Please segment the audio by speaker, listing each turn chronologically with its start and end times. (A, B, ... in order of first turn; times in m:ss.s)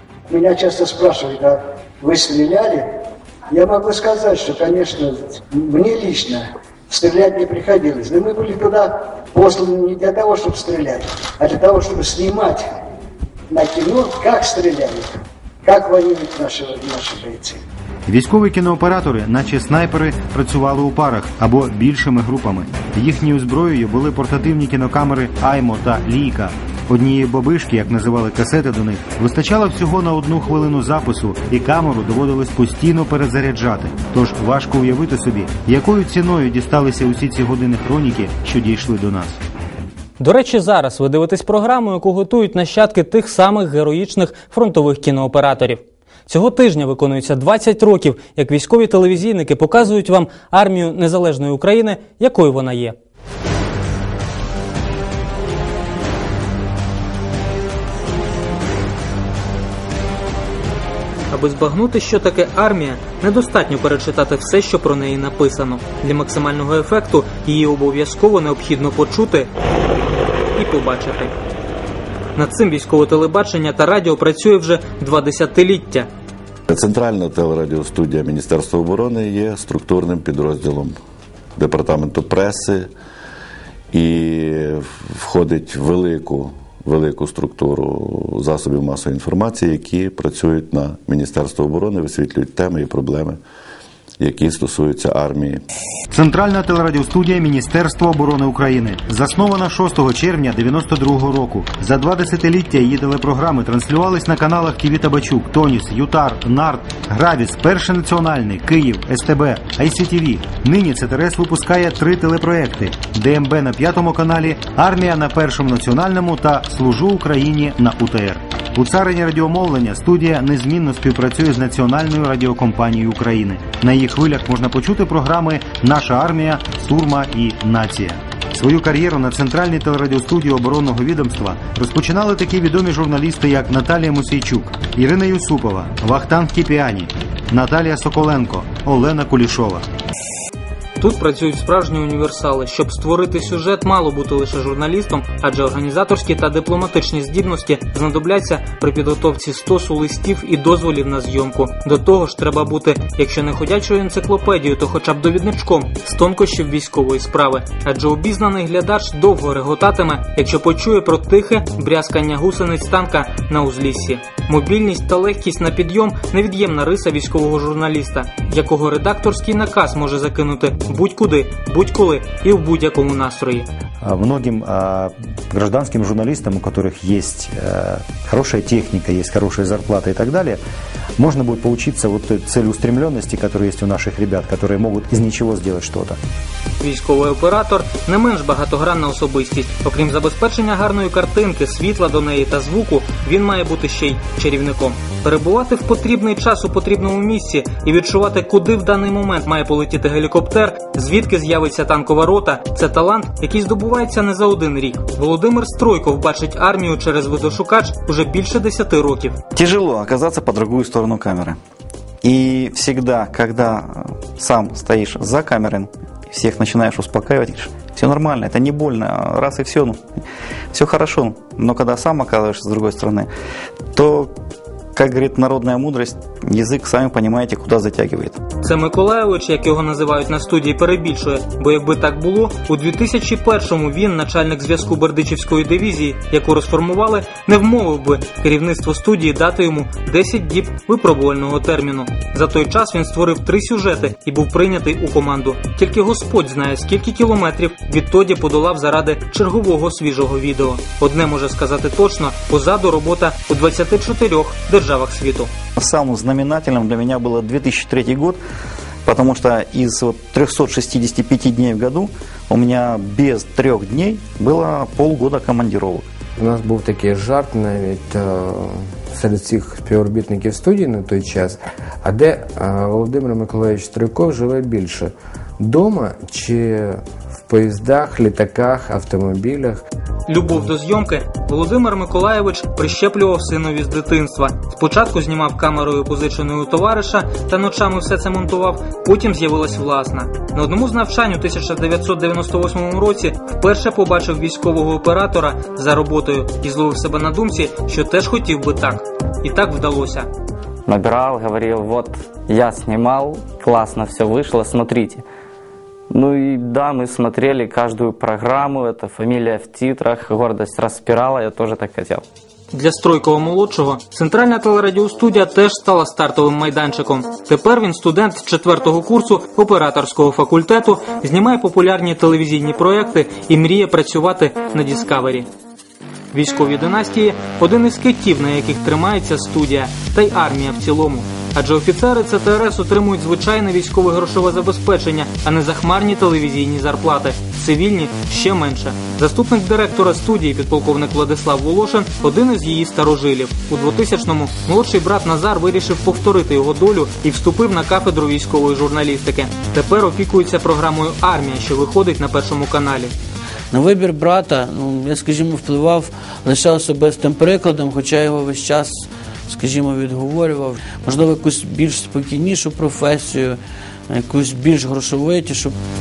0:00.3-0:02.9 A
0:03.5-0:12.7 A
0:13.5-0:15.1 A
0:15.6-0:17.6 A
0:18.1-0:39.4 B
0:40.2-0:53.0 C
1:01.3-1:09.5 C
1:10.6-1:11.3 C
1:12.4-1:16.1 C
1:16.7-1:21.0 D
1:21.6-1:22.9 D
1:23.9-1:33.4 D
1:34.2-1:35.6 D
1:36.1-2:19.9 B
2:21.0-2:53.7 C
2:54.0-3:00.6 B
3:01.2-3:06.2 B
3:06.8-3:29.4 C
3:29.6-3:31.6 E
3:32.2-3:40.0 E
3:40.7-3:43.3 E
3:43.9-3:44.3 E
3:45.0-3:48.4 E
3:48.6-4:15.5 C
4:15.8-4:18.4 E
4:19.1-4:26.0 E
4:26.4-4:39.8 F
4:40.3-5:00.3 C
5:00.9-5:05.2 G
5:06.1-5:12.2 G
5:12.7-5:25.5 C
5:26.3-5:53.1 C
5:53.7-6:05.8 H